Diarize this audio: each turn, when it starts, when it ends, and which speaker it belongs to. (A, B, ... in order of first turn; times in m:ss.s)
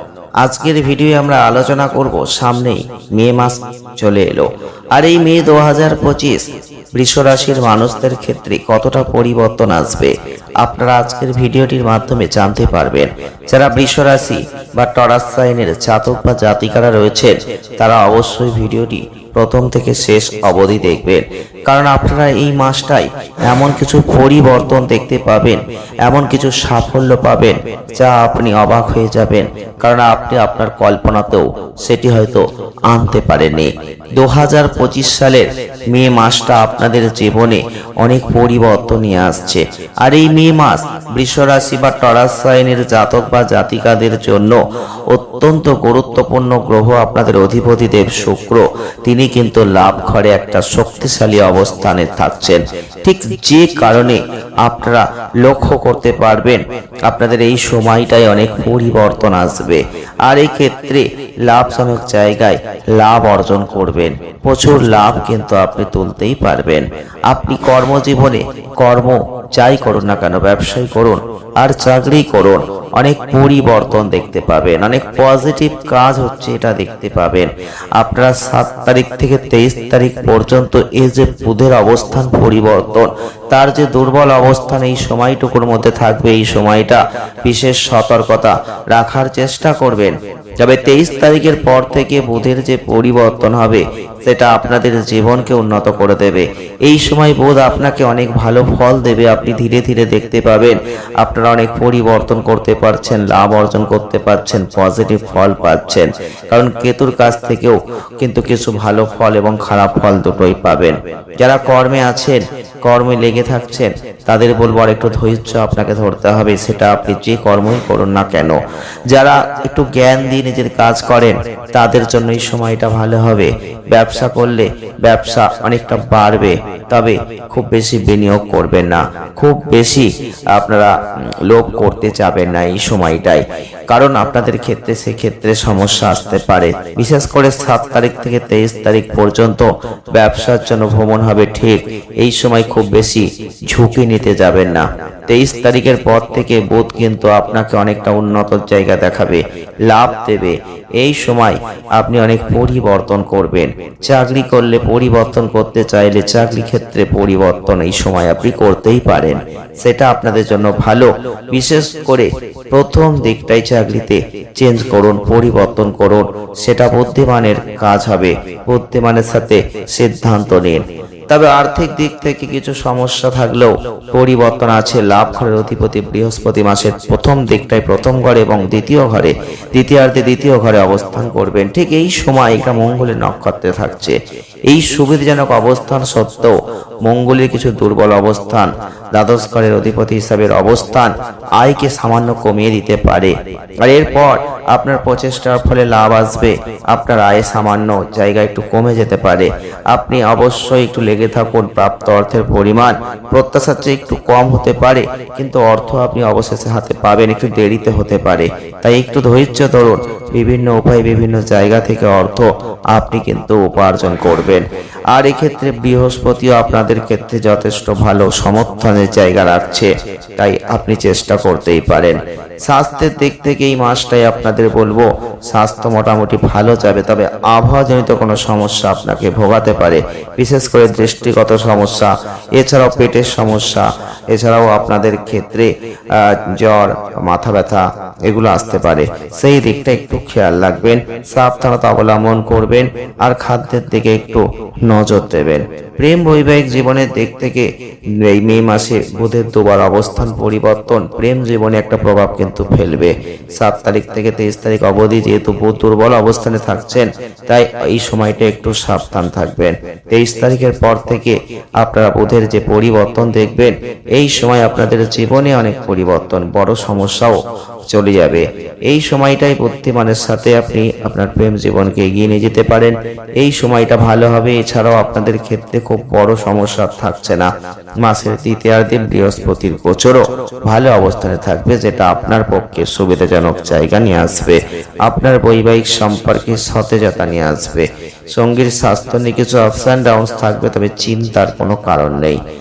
0:00.4-0:06.4 A
0:06.9-0:44.6 A
0:45.1-1:58.5 A
1:59.1-2:10.9 A
2:11.5-3:04.2 A
3:04.7-3:06.5 A
3:07.0-4:07.7 A
4:08.2-4:27.3 A
4:27.9-4:37.5 A
4:38.0-4:52.4 A